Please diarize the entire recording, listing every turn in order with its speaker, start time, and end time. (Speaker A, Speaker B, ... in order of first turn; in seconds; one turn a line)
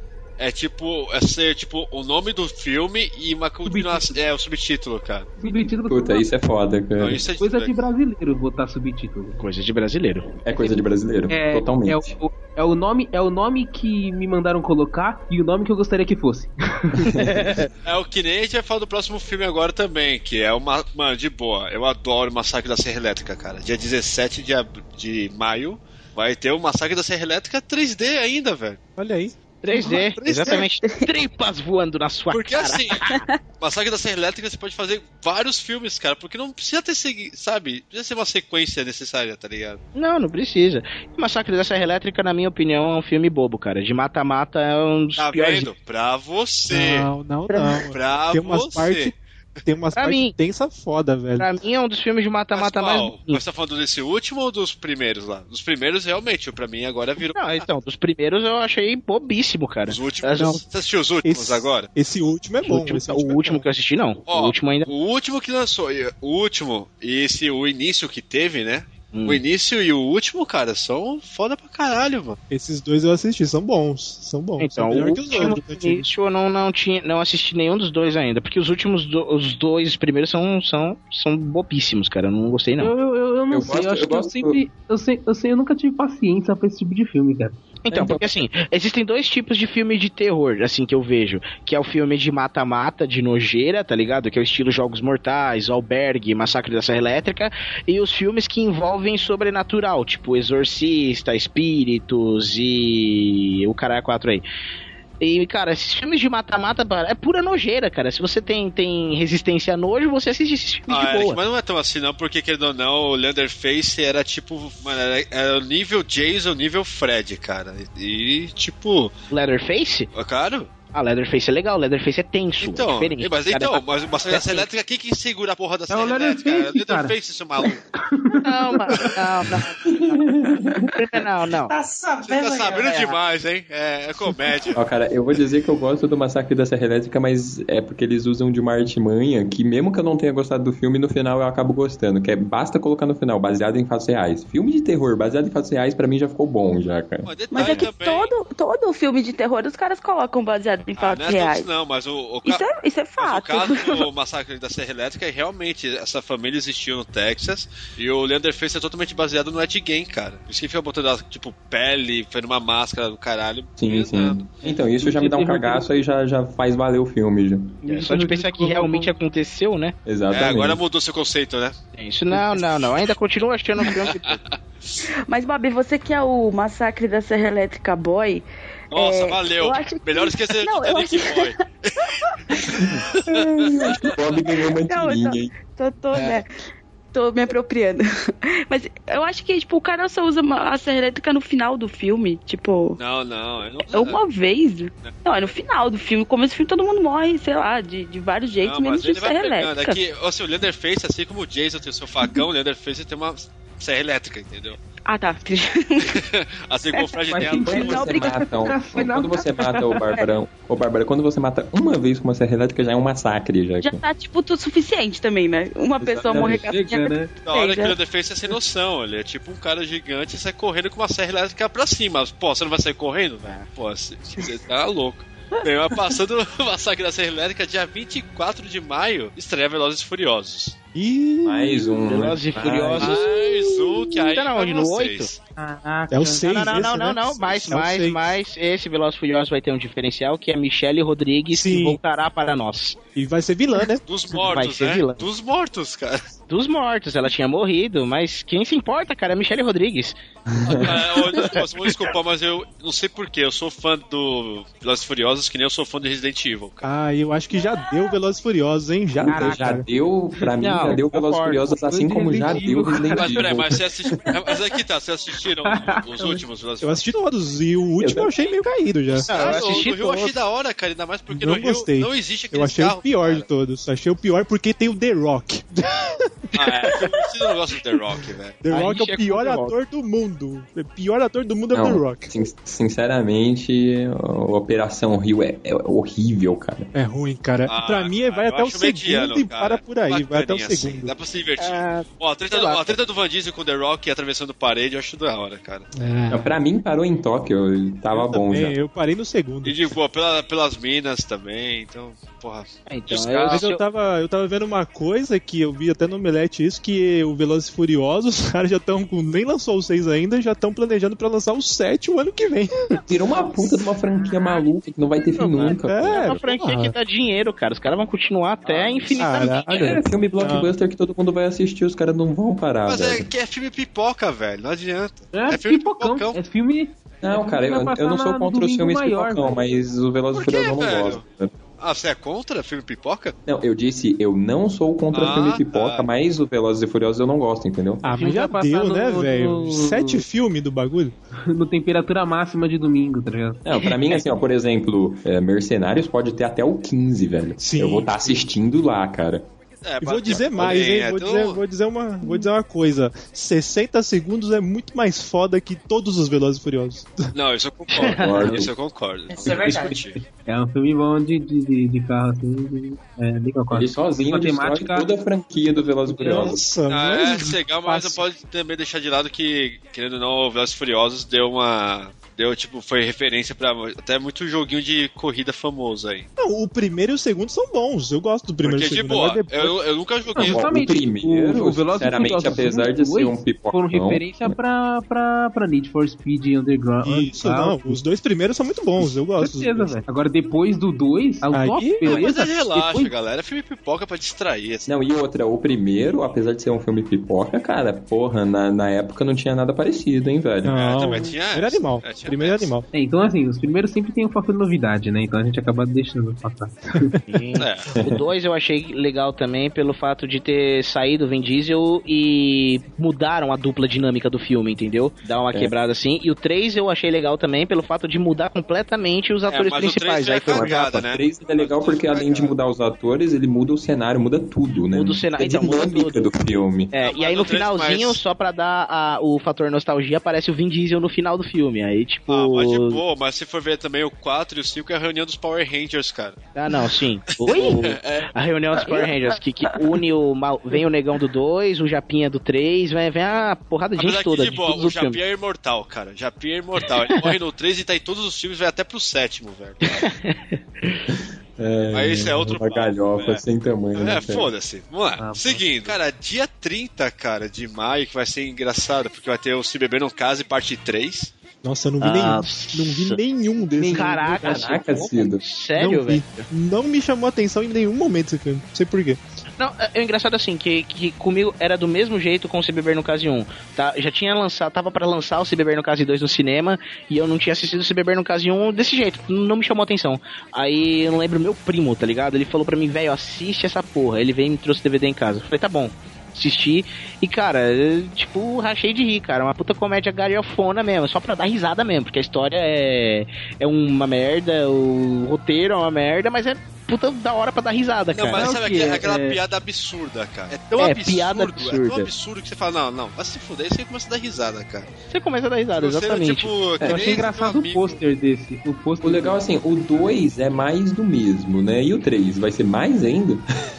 Speaker A: 0.4-5.4
Speaker B: 3.6-4.2
Speaker B: 5.4-6.3
Speaker C: 5.9-7.2
Speaker A: 7.0-7.8
Speaker B: 7.4-9.4
Speaker D: 9.4-10.4
Speaker C: 10.4-12.2
Speaker B: 11.3-17.6
Speaker D: 17.1-17.7
Speaker A: 17.9-28.8
Speaker E: 29.0-30.7
Speaker D: 29.6-33.3
Speaker F: 30.4-31.1
Speaker A: 32.3-39.8
Speaker F: 33.0-33.3
Speaker D: 40.0-45.7
Speaker A: 45.2-47.1
Speaker E: 46.7-51.5
Speaker F: 47.5-47.9
Speaker A: 47.9-49.2
Speaker D: 50.0-50.4
Speaker D: 51.4-53.4
Speaker A: 52.5-57.7
Speaker D: 57.3-60.6
Speaker A: 59.9-61.9
Speaker E: 60.4-60.6
Speaker E: 61.2-63.7
Speaker D: 62.6-64.9
Speaker A: 64.3-72.4
Speaker D: 69.1-69.4
Speaker E: 72.5-76.1
Speaker D: 74.6-82.9
Speaker B: 82.8-87.6
Speaker C: 83.5-84.6
Speaker D: 87.9-104.5
Speaker C: 87.9-88.3
Speaker D: 105.2-111.4
Speaker A: 110.9-119.1
Speaker D: 119.3-120.1
Speaker A: 120.1-120.7
Speaker D: 120.9-124.7
Speaker A: 122.6-127.8
Speaker B: 125.9-130.9
Speaker D: 128.4-129.8
Speaker D: 130.9-131.7
Speaker G: 131.7-133.1
Speaker A: 132.2-134.8
Speaker C: 134.7-147.9
Speaker A: 147.2-148.3
Speaker F: 147.5-151.7
Speaker A: 151.0-152.6
Speaker F: 152.4-154.1
Speaker A: 153.2-164.4
Speaker C: 163.8-167.8
Speaker B: 164.6-165.9
Speaker B: 167.8-169.1
Speaker D: 167.8-169.9
Speaker C: 170.1-170.8
Speaker A: 170.3-171.8
Speaker D: 171.9-174.4
Speaker A: 172.5-173.1
Speaker A: 173.8-175.0
Speaker F: 175.3-182.3
Speaker A: 178.9-182.2
Speaker C: 182.7-185.6
Speaker A: 182.9-183.7
Speaker F: 184.9-186.5
Speaker F: 187.1-193.0
Speaker A: 193.0-194.2
Speaker F: 193.9-200.0
Speaker A: 195.0-195.5
Speaker A: 198.6-204.8
Speaker F: 205.1-206.2
Speaker A: 206.1-208.1
Speaker F: 206.9-210.3
Speaker B: 207.3-209.5
Speaker C: 207.6-214.0
Speaker F: 213.8-217.9
Speaker C: 216.0-216.7
Speaker B: 216.3-217.3
Speaker A: 217.4-230.8
Speaker E: 230.9-232.1
Speaker C: 231.4-233.2
Speaker D: 232.1-233.3
Speaker A: 233.0-235.4
Speaker D: 234.2-235.3
Speaker B: 235.6-236.8
Speaker E: 236.1-238.4
Speaker D: 236.4-243.0
Speaker E: 241.5-242.0
Speaker E: 243.1-244.0
Speaker A: 244.0-246.3
Speaker D: 244.4-245.3
Speaker D: 246.5-250.2
Speaker C: 250.5-251.4
Speaker A: 250.6-256.9
Speaker E: 256.8-259.9
Speaker C: 259.2-263.8
Speaker D: 260.6-261.7
Speaker B: 261.7-263.6
Speaker A: 263.1-267.1
Speaker B: 265.6-266.4
Speaker E: 266.8-269.6
Speaker C: 268.0-268.3
Speaker A: 269.1-273.5
Speaker D: 269.3-270.4
Speaker E: 271.3-277.3
Speaker A: 276.6-278.6
Speaker E: 278.6-282.3
Speaker D: 278.7-279.7
Speaker C: 281.7-286.9
Speaker E: 286.9-291.1
Speaker A: 287.7-295.9
Speaker D: 291.6-292.9
Speaker E: 295.9-296.5
Speaker C: 296.3-298.8
Speaker E: 298.1-299.9
Speaker A: 299.6-303.7
Speaker D: 302.9-303.8
Speaker E: 303.5-313.1
Speaker C: 313.1-316.4
Speaker D: 315.4-319.9
Speaker E: 315.8-316.9
Speaker A: 318.7-319.9
Speaker E: 319.2-320.7
Speaker C: 319.7-323.3
Speaker A: 322.9-326.4
Speaker B: 325.3-329.6
Speaker C: 327.2-331.5
Speaker A: 330.3-331.2
Speaker A: 331.8-333.4
Speaker C: 333.4-338.1
Speaker A: 335.1-336.1
Speaker E: 338.0-341.1
Speaker B: 338.1-340.2
Speaker B: 341.4-344.1
Speaker C: 343.6-349.4
Speaker E: 347.6-348.4
Speaker A: 349.8-351.6
Speaker E: 350.0-357.3
Speaker A: 357.3-360.2
Speaker D: 357.9-358.6
Speaker C: 358.1-358.7
Speaker G: 359.3-360.0
Speaker B: 359.4-365.1
Speaker C: 363.7-366.7
Speaker E: 366.1-368.2
Speaker A: 366.9-376.3
Speaker E: 376.4-379.7
Speaker A: 378.6-380.7
Speaker B: 380.4-388.0
Speaker C: 380.4-384.6
Speaker E: 387.0-390.0
Speaker B: 389.0-393.1
Speaker E: 391.5-392.6
Speaker A: 392.0-394.9
Speaker C: 394.9-401.1
Speaker E: 400.6-402.9
Speaker A: 400.7-402.7
Speaker B: 402.9-407.1
Speaker D: 407.3-420.7
Speaker A: 407.6-407.9
Speaker A: 419.5-422.6
Speaker C: 420.4-426.9
Speaker D: 424.9-426.3
Speaker D: 426.9-433.0
Speaker A: 427.0-428.2
Speaker A: 432.3-436.4
Speaker D: 436.6-445.2
Speaker A: 437.4-438.3
Speaker F: 438.8-439.8
Speaker A: 444.0-450.1
Speaker D: 449.8-451.0
Speaker C: 451.1-454.5
Speaker A: 451.9-453.4
Speaker A: 453.9-461.3
Speaker B: 455.2-455.7
Speaker E: 461.6-464.6
Speaker D: 462.0-463.2
Speaker B: 463.7-464.7
Speaker D: 463.9-466.5
Speaker C: 464.4-465.4
Speaker E: 465.7-469.2
Speaker D: 469.6-498.5
Speaker A: 498.1-504.9
Speaker B: 498.3-499.4
Speaker D: 500.8-502.1
Speaker D: 505.1-506.5
Speaker A: 505.8-508.0
Speaker C: 506.8-507.2
Speaker B: 506.8-509.4
Speaker C: 509.0-513.4